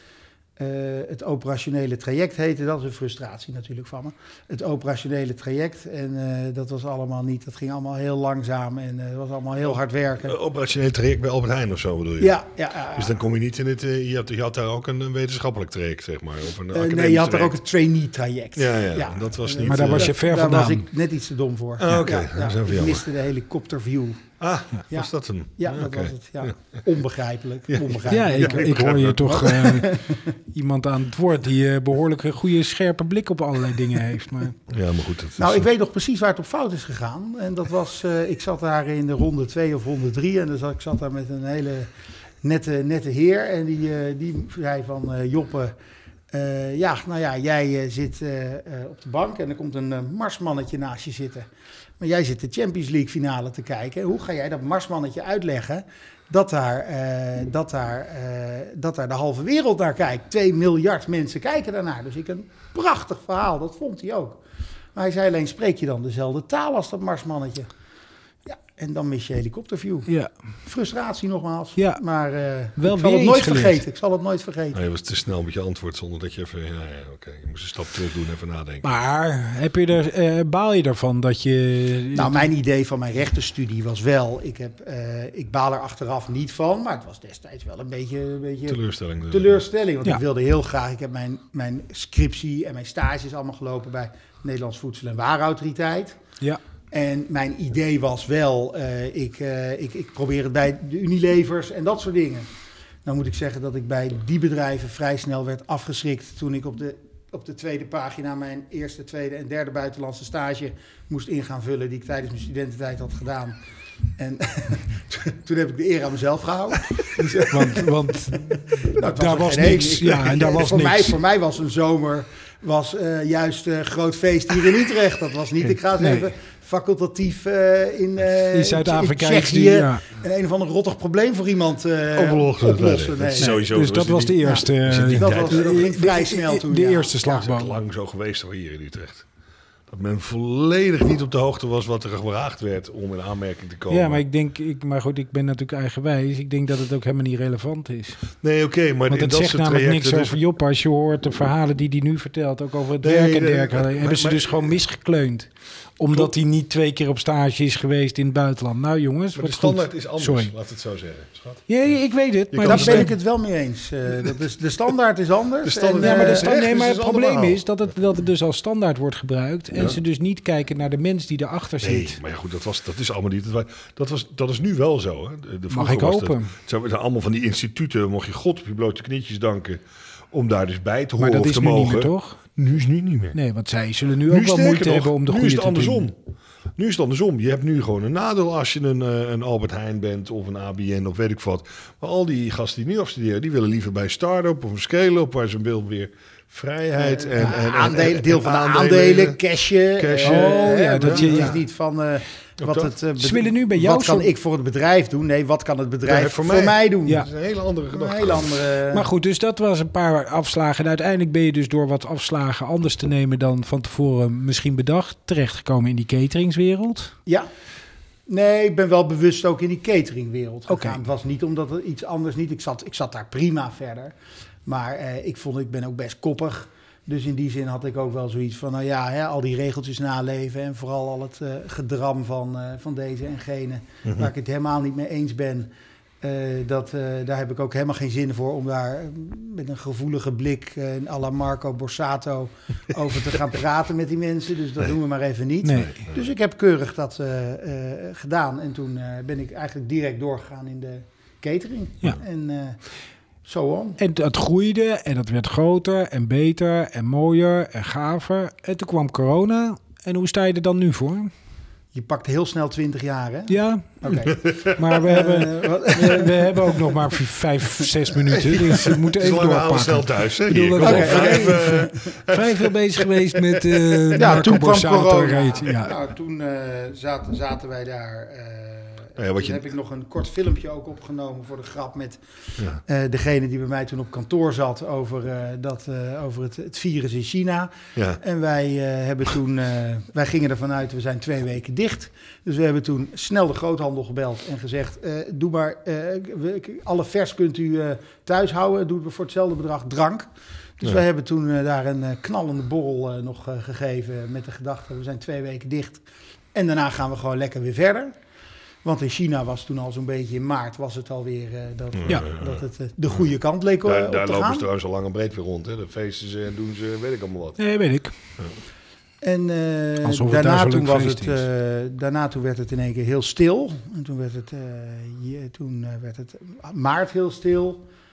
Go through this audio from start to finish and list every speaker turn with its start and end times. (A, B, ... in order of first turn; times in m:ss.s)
0:00.6-0:10.4 A
0:10.2-0:12.4 B
0:12.2-0:13.2 A
0:12.9-0:17.6 B
0:16.7-0:24.3 A
0:18.6-0:20.1 B
0:19.6-0:20.9 C
0:21.8-0:23.0 B
0:24.4-0:26.6 B
0:24.9-0:30.3 A
0:27.7-0:29.6 B
0:28.1-0:34.6 C
0:34.7-0:35.6 B
0:35.4-0:41.9 A
0:42.4-0:45.8 A
0:46.3-1:04.4 A
1:05.0-1:07.7 A
1:08.5-1:10.1 A
1:10.7-1:14.8 A
1:12.8-1:13.8 C
1:14.7-1:18.9 B
1:18.8-1:22.5 C
1:22.1-1:36.2 A
1:28.7-1:29.6 B
1:36.9-1:42.5 A
1:43.0-1:53.6 A
1:54.2-2:13.6 A
1:57.5-2:01.2 C
2:06.0-2:06.3 C
2:08.5-2:10.0 C
2:12.2-2:15.9 B
2:13.4-2:17.8 C
2:14.4-2:17.2 A
2:17.2-2:19.2 B
2:19.9-2:24.2 B
2:23.9-2:28.2 C
2:28.4-2:30.4 B
2:29.1-2:40.5 C
2:33.0-2:34.7 B
2:39.4-2:41.7 B
2:41.7-2:43.1 C
2:42.5-2:43.1 B
2:42.6-2:46.6 A
2:45.6-2:47.6 B
2:46.0-2:52.2 C
2:51.8-2:59.8 B
2:55.7-2:56.5 C
3:00.3-3:03.4 B
3:01.2-3:02.4 C
3:03.3-3:06.1 C
3:04.3-3:06.2 B
3:06.8-3:19.4 B
3:16.9-3:27.3 A
3:20.0-3:21.6 B
3:20.2-3:21.6 C
3:22.6-3:22.9 B
3:23.2-3:24.3 C
3:26.1-3:28.6 B
3:27.9-3:29.1 A
3:28.9-3:37.2 C
3:38.3-4:12.8 A
3:40.7-3:41.0 C
3:54.0-3:54.3 B
4:05.6-4:06.1 C
4:13.4-4:14.0 A
4:14.0-4:21.3 C
4:21.9-4:27.0 A
4:23.5-4:35.9 C
4:24.3-4:24.8 B
4:28.5-4:34.5 B
4:30.8-4:32.0 A
4:34.2-5:08.2 A
4:39.2-4:39.6 B
5:08.8-5:14.7 A
5:12.0-5:12.6 B
5:13.8-5:17.6 B
5:17.6-5:18.1 C
5:19.2-5:27.8 A
5:20.0-5:21.4 C